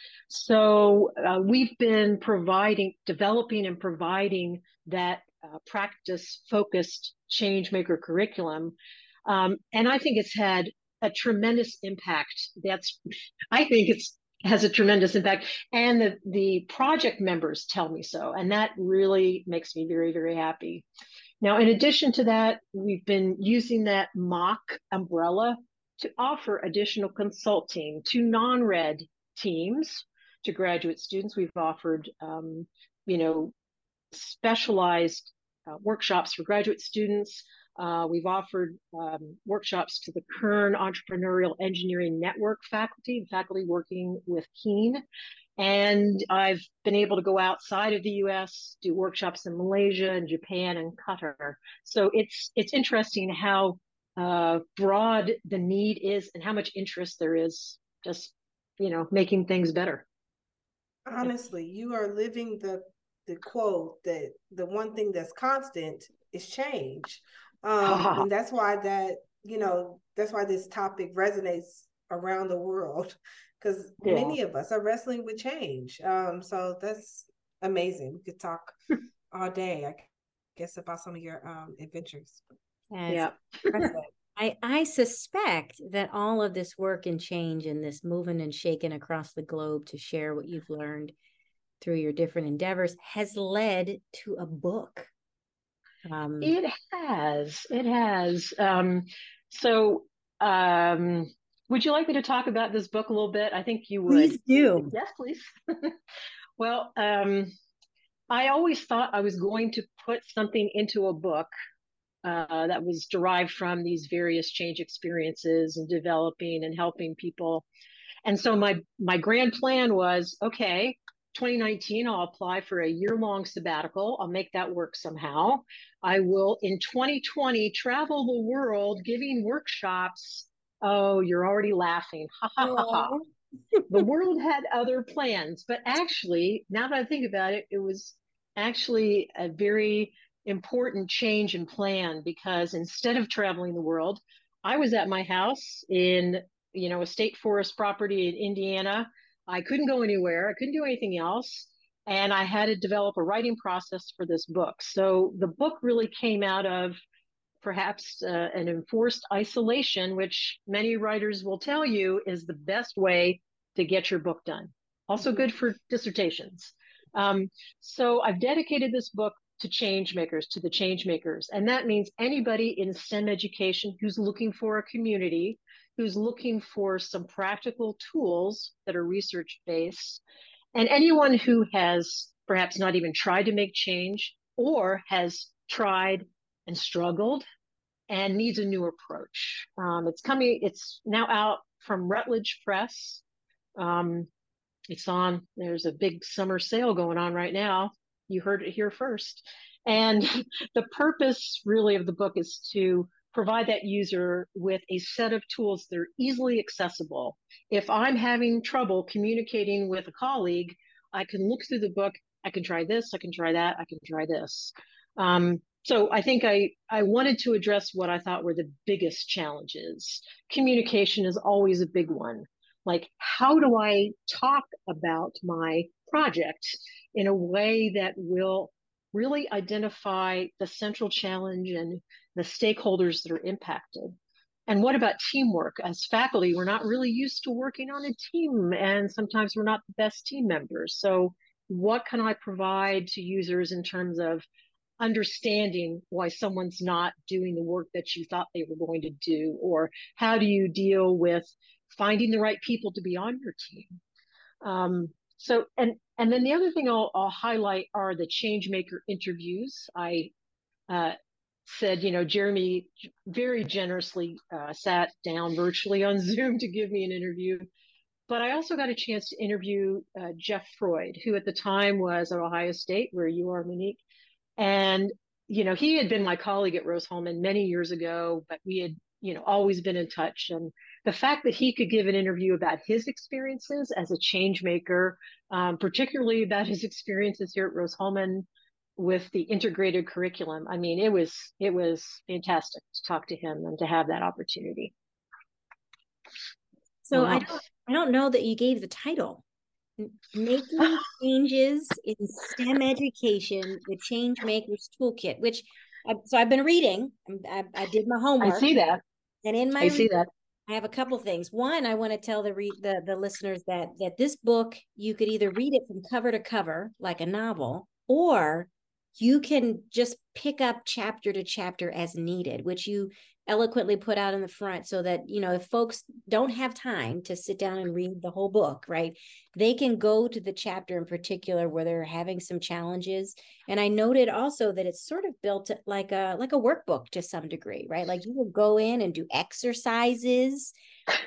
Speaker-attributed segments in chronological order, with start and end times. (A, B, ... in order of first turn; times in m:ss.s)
0:00.3-0:08.8 A
0:09.3-0:13.0 A
0:13.5-0:20.9 A
0:21.4-0:33.5 A
0:34.1-0:45.0 A
0:45.6-1:00.0 A
1:01.1-1:18.8 B
1:07.8-1:08.3 A
1:14.0-1:14.4 A
1:19.3-1:22.4 B
1:22.9-1:31.1 C
1:23.1-1:23.9 A
1:31.8-1:35.1 C
1:36.1-1:36.6 C
1:36.4-1:46.0 A
1:44.1-1:45.0 C
1:46.6-1:47.5 A
1:48.3-1:51.5 A
1:52.2-1:57.7 A
1:58.2-2:13.1 A
2:12.6-2:13.2 C
2:13.9-2:37.0 A
2:37.6-3:00.2 A
3:00.8-3:07.4 A
3:08.1-3:13.2 A
3:13.8-3:14.3 A
3:14.9-3:54.2 A
3:54.7-4:04.4 A
4:05.0-4:14.0 A
4:14.6-4:20.3 A
4:20.9-4:21.2 A
4:21.7-4:27.7 A
4:28.3-4:34.0 A
4:34.6-4:54.9 A
4:57.0-4:59.4 C
4:57.1-4:57.6 A
5:00.0-5:08.7 C
5:08.4-5:09.0 A
5:09.4-5:10.1 C
5:09.8-5:10.3 A
5:10.7-5:40.7 C